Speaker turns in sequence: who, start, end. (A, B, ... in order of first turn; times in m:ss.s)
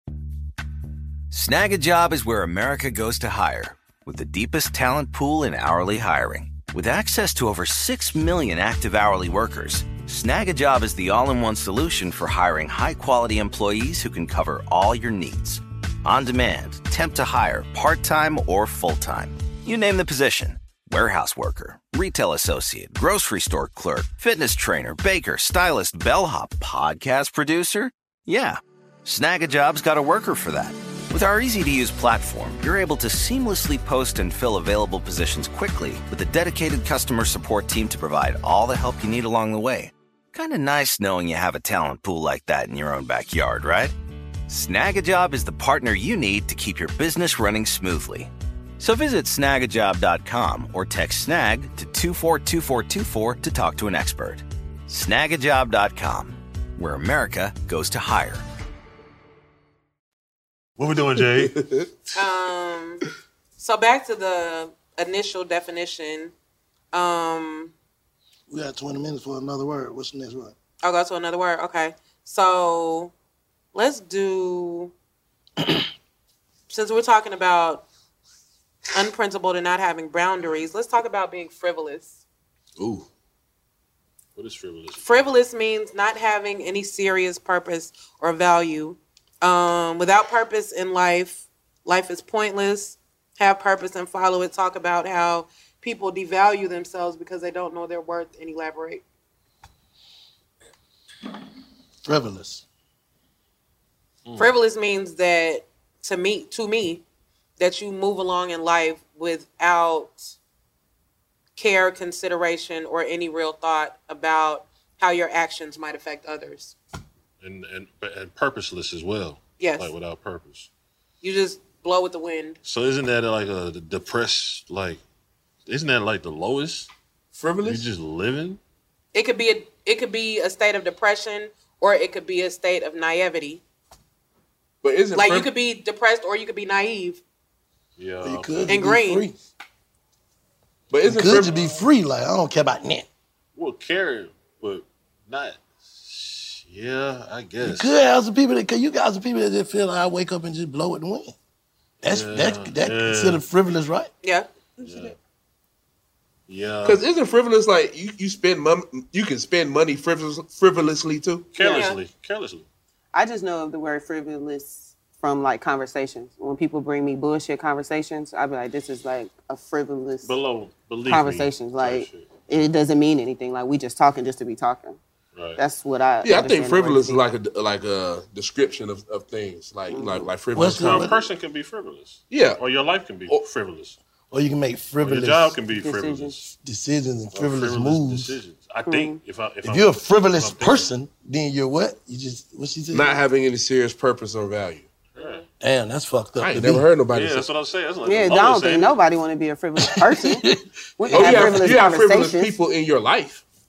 0:01.3-0:43.9 A
0:44.5-0:58.4 A
1:00.8-1:01.5 B
1:01.4-1:01.9 C
1:02.1-1:03.0 D
1:03.6-1:06.3 D
1:06.9-1:07.7 D
1:08.5-1:10.5 E
1:10.8-1:13.1 D
1:13.7-1:14.9 D
1:16.7-1:17.8 D
1:18.9-1:22.2 D
1:22.8-1:23.1 C
1:24.4-1:25.1 B
1:25.0-1:39.0 D
1:42.0-1:42.6 E
1:44.4-1:47.0 D
1:47.6-1:50.3 D
1:51.6-1:56.7 D
1:57.4-2:00.7 B
1:59.6-1:59.9 D
2:01.2-2:02.6 D
2:02.6-2:05.0 B
2:05.7-2:06.9 B
2:07.3-2:07.8 C
2:07.6-2:08.6 B
2:09.1-2:13.6 D
2:14.8-2:15.5 C
2:15.1-2:17.2 D
2:18.0-2:18.8 B
2:18.2-2:19.3 E
2:18.7-2:19.2 D
2:20.9-2:21.7 C
2:21.0-2:23.1 E
2:23.6-2:27.9 B
2:27.6-2:31.3 E
2:32.0-2:34.1 E
2:32.0-2:33.4 B
2:34.2-2:34.5 D
2:34.8-2:35.1 B
2:36.5-2:37.0 B
2:36.8-2:41.5 C
2:41.5-2:42.6 B
2:41.6-2:42.0 D
2:43.1-2:50.4 F
2:50.2-2:52.3 B
2:51.0-2:55.0 F
2:55.3-2:55.6 B
2:55.6-2:57.2 F
2:56.2-3:01.1 C
2:59.9-3:00.3 F
3:00.5-3:01.2 E
3:00.6-3:04.0 B
3:02.3-3:02.6 C
3:04.3-3:05.6 E
3:05.0-3:06.5 B
3:05.7-3:06.4 F
3:06.5-3:08.4 E
3:07.3-3:10.9 B
3:08.8-3:09.2 F
3:09.6-3:13.1 E
3:12.9-3:14.9 C
3:15.2-3:15.4 B
3:15.6-3:16.8 E
3:16.4-3:17.4 C
3:17.1-3:19.0 B
3:18.0-3:20.4 F
3:21.0-3:22.5 F
3:21.1-3:23.4 C
3:21.1-3:21.6 E
3:21.2-3:21.4 B